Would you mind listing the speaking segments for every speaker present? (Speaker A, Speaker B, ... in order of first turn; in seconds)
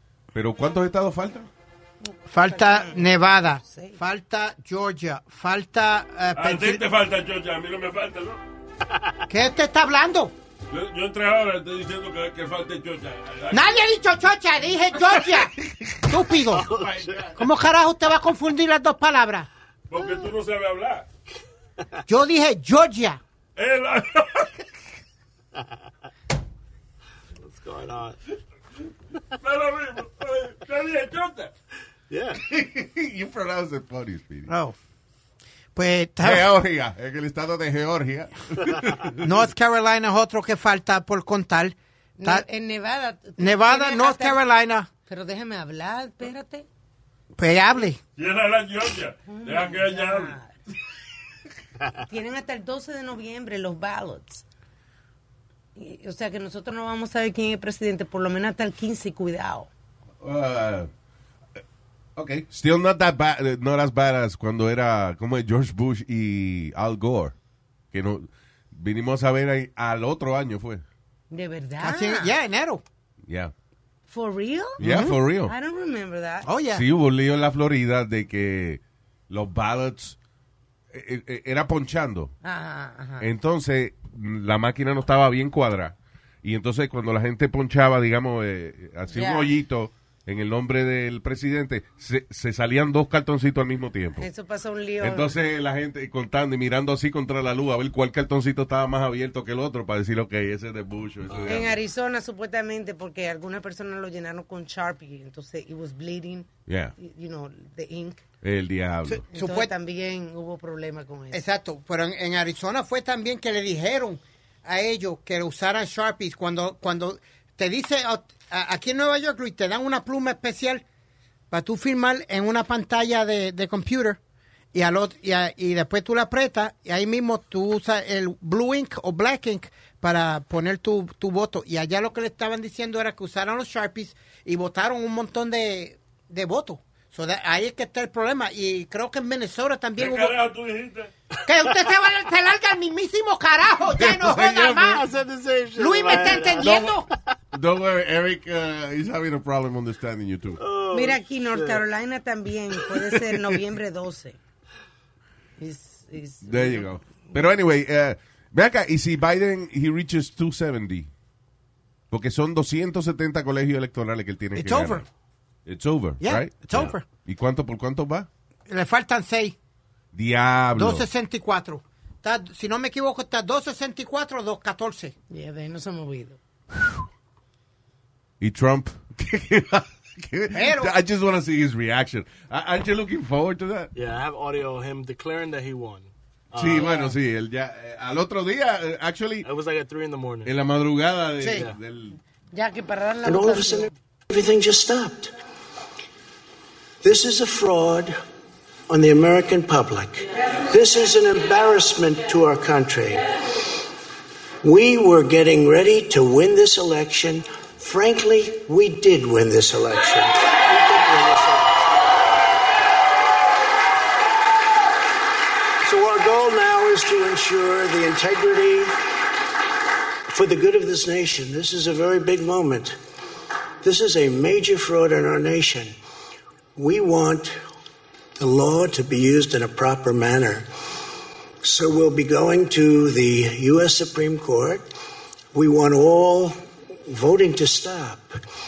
Speaker A: 0.3-1.5, 32.3-34.5, 36.2-39.2, 60.2-60.9, 62.1-67.3, 67.9-70.8, 73.2-73.5, 74.8-75.5, 76.7-80.2, 80.9-82.3, 83.2-94.3, 95.0-101.8, 106.7-107.0, 108.4-109.2, 143.9-144.8, 146.6-146.9, 147.5-150.6, 156.4-161.1, 162.1-165.1, 165.7-168.3, 170.1-171.1, 178.4-183.9, 186.5-189.5, 190.4-192.2
Speaker B: 2.0-4.0, 42.2-44.4, 45.0-46.6, 49.3-50.5, 52.0-54.4, 55.8-59.7, 71.3-72.3, 74.1-74.8, 75.4-76.5, 82.4-83.3, 89.1-89.5, 94.2-95.3, 101.4-108.2, 109.3-111.4, 150.9-154.4, 155.6-157.4, 175.3-176.4, 192.5-193.9
Speaker C: 2.3-6.8, 9.3-10.3, 13.5-16.7, 17.4-19.5, 22.1-23.2, 34.5-34.8, 35.8-36.5, 39.2-42.4, 43.4-44.9, 47.4-48.0, 71.8-72.8, 74.8-75.2, 76.4-76.8, 109.0-109.7, 111.3-120.8, 121.5-124.2, 124.7-140.3, 141.5-145.1, 145.8-147.1, 164.5-165.1, 166.2-167.0, 168.7-169.5, 170.8-175.1, 180.5-180.9, 191.4-191.6
Speaker D: 6.3-8.4, 10.7-13.9, 16.8-17.2, 19.9-21.1, 23.6-24.6, 29.4-31.5, 48.2-50.4, 140.0-141.1
Speaker E: 16.5-17.4, 27.4-28.2, 32.1-32.4, 101.3-101.6, 144.6-146.9, 150.6-151.8, 183.9-187.1, 189.4-190.5, 210.6-211.8
Speaker F: 193.2-195.3, 197.0-198.2, 198.9-203.3, 204.6-210.5, 215.8-218.9, 220.3-223.0, 223.8-225.9, 226.8-227.6, 228.4-230.7, 231.6-234.9, 235.5-238.4